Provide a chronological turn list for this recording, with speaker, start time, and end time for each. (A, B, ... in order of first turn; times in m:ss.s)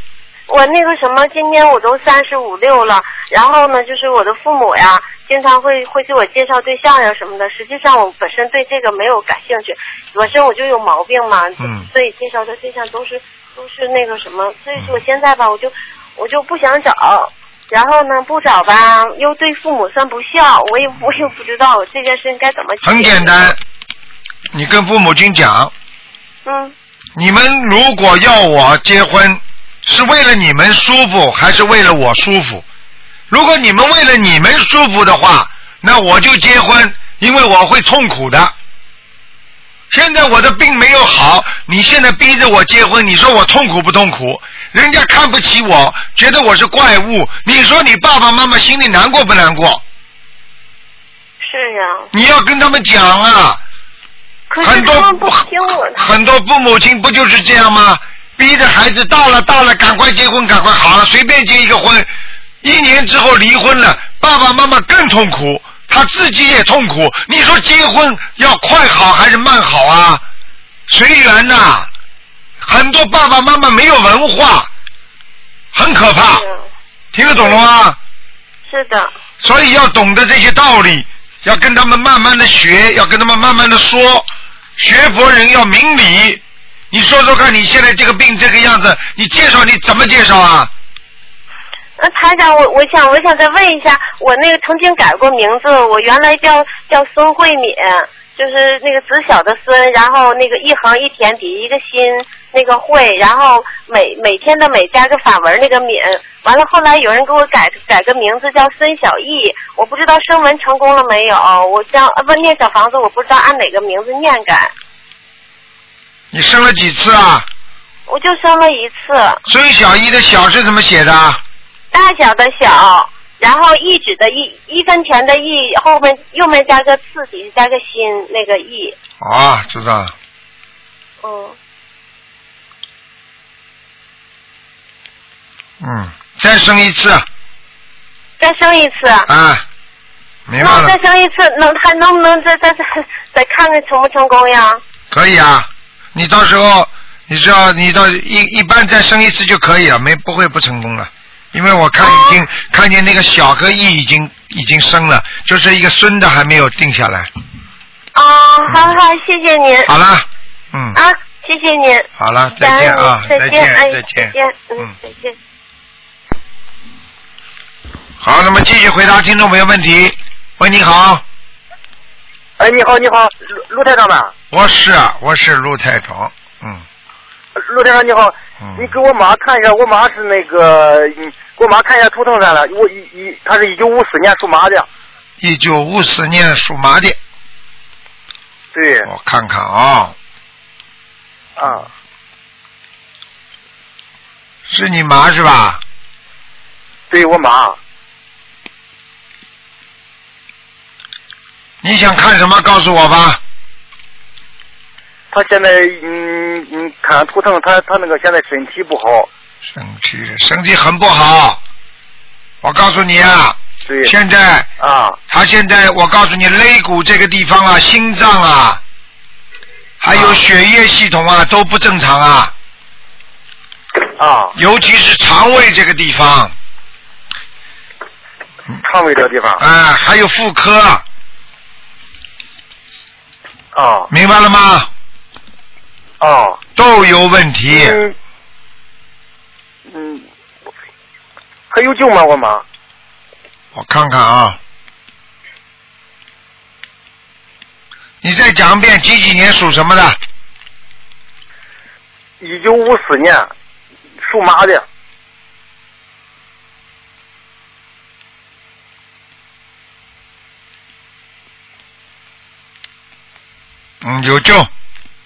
0:00.5-0:23.6 A
0:11.6-0:11.9 B
0:22.8-0:23.6 B
0:24.5-0:25.7 B
0:26.4-0:26.7 A
0:27.2-0:32.6 B
0:33.3-0:38.5 B
0:39.9-0:49.8 B
0:51.4-0:52.1 A
0:52.1-0:53.6 B
0:54.5-0:56.1 A
0:54.6-1:02.1 B
1:02.6-1:10.2 B
1:10.9-1:11.9 B
1:12.6-1:14.7 B
1:15.7-1:16.4 B
1:16.2-1:16.6 A
1:17.1-1:18.0 B
1:17.2-1:17.6 A
1:18.7-1:19.1 A
1:19.4-1:30.7 B
1:32.0-1:54.7 A
1:56.3-1:57.4 B
1:58.1-1:59.4 A
1:59.5-2:01.4 B
2:01.9-2:09.0 A
2:09.2-2:10.1 B
2:11.2-2:11.6 A
2:15.8-2:17.2 B
2:18.4-2:19.3 A
2:19.3-2:19.6 B
2:20.5-2:20.9 B
2:20.6-2:24.8 A
2:25.1-2:37.3 B
2:32.0-2:32.4 A
2:38.1-2:39.9 A
2:38.7-2:39.0 B
2:39.8-2:41.0 B
2:40.9-2:45.4 A
2:42.2-2:44.9 B
2:48.2-2:51.2 B
2:52.6-2:54.3 C
2:54.5-2:56.8 B
2:57.6-3:04.9 C
2:58.6-2:58.9 B
3:05.4-3:07.2 B
3:08.7-3:09.1 C
3:09.0-3:10.1 B
3:11.6-3:11.9 C
3:14.7-3:15.8 B
3:17.1-3:17.8 C
3:21.8-3:23.4 B
3:25.3-3:29.3 C
3:29.7-3:31.6 B
3:32.6-3:34.7 B
3:33.8-3:34.1 C
3:34.8-3:35.2 C
3:35.3-3:38.8 B
3:40.0-3:42.5 B
3:40.1-3:40.4 C
3:44.2-3:44.5 C
3:44.5-3:46.5 B
3:48.8-3:49.6 C
3:49.6-3:51.0 B
3:53.7-3:54.1 C
3:54.1-3:54.9 B
3:56.2-3:56.6 C
3:56.8-3:58.0 B
3:57.7-3:58.1 C
3:59.9-4:00.2 C
4:01.7-4:02.6 C
4:03.7-4:04.6 B
4:08.2-4:10.2 B
4:12.4-4:13.5 C
4:14.2-4:14.8 C
4:24.0-4:24.7 B